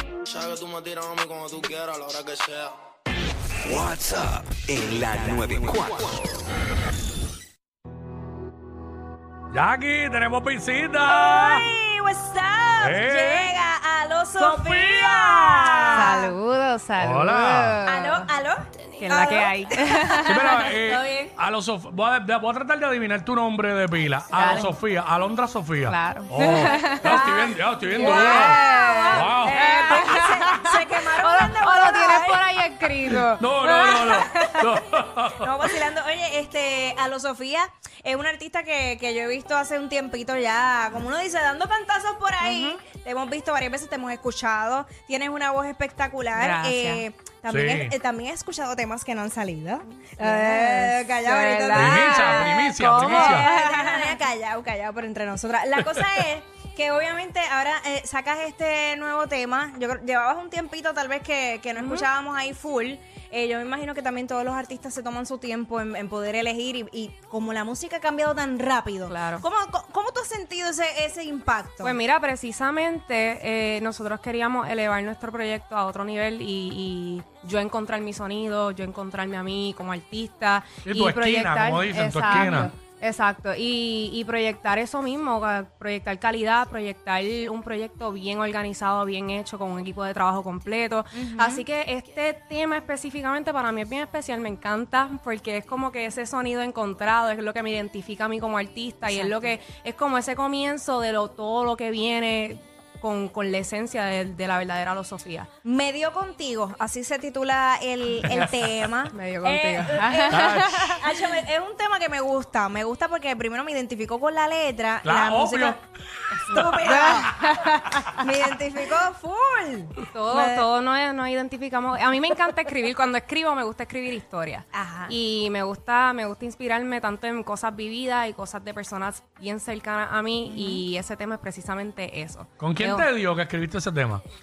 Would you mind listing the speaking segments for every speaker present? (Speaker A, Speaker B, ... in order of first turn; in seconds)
Speaker A: 0.3-2.7
Speaker B: 3.6-6.3
Speaker C: 9.5-11.7, 12.8-13.5, 14.4-15.8, 17.0-17.8, 20.2-30.2, 33.1-35.7, 47.5-48.0, 51.7-53.5, 80.8-82.7, 108.2-108.6, 110.3-111.0, 115.0-115.8, 116.4-116.7, 132.6-134.2
Speaker D: 11.0-16.3, 17.9-21.3, 27.0-32.4, 33.8-34.6, 35.4-71.9, 91.1-91.6, 99.1-99.4, 105.6-115.8, 116.5-120.7, 124.7-125.1, 130.5-130.8
Speaker E: 15.9-18.3, 18.9-20.5, 24.3-24.7, 25.8-34.7, 42.4-42.8, 46.3-47.0, 50.2-54.2, 61.8-62.1, 69.1-69.4, 71.8-105.5, 109.1-111.1, 116.4-118.2, 120.1-133.1